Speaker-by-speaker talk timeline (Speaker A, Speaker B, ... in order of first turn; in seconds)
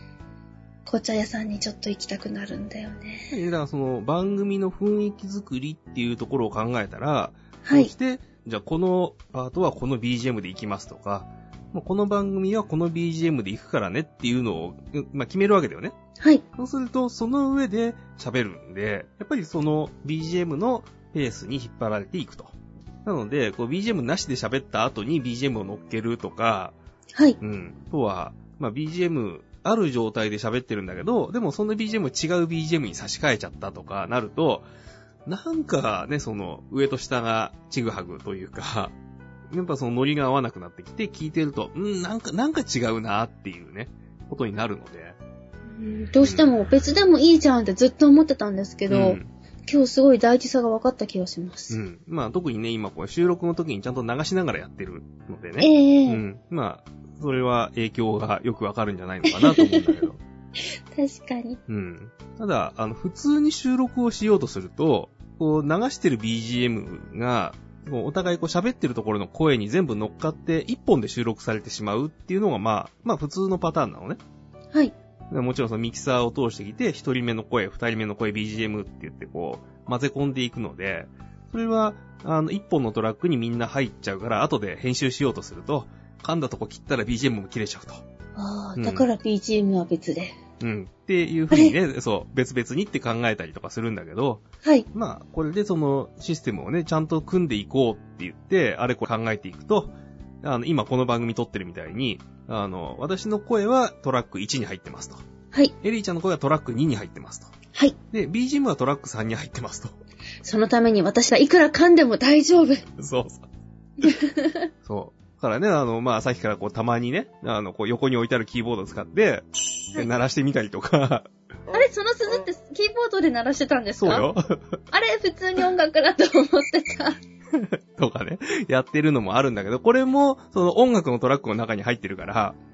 Speaker A: 0.9-3.3, 7.6-7.9, 45.8-51.8, 55.6-56.2, 59.3-60.0, 60.9-61.6, 88.4-90.3, 91.5-91.8, 110.4-112.9, 114.0-114.7, 121.7-124.3, 124.9-127.2
Speaker B: 3.3-15.9, 16.6-22.5, 23.1-26.8, 27.4-34.7, 35.3-39.0, 39.5-45.2, 46.2-46.5, 48.9-49.3, 51.7-60.2, 61.7-74.2, 75.3-88.0, 88.8-89.1, 90.6-105.2, 105.8-107.5, 108.1-110.0, 113.0-113.5, 114.8-121.3, 124.0-124.8, 127.5-132.6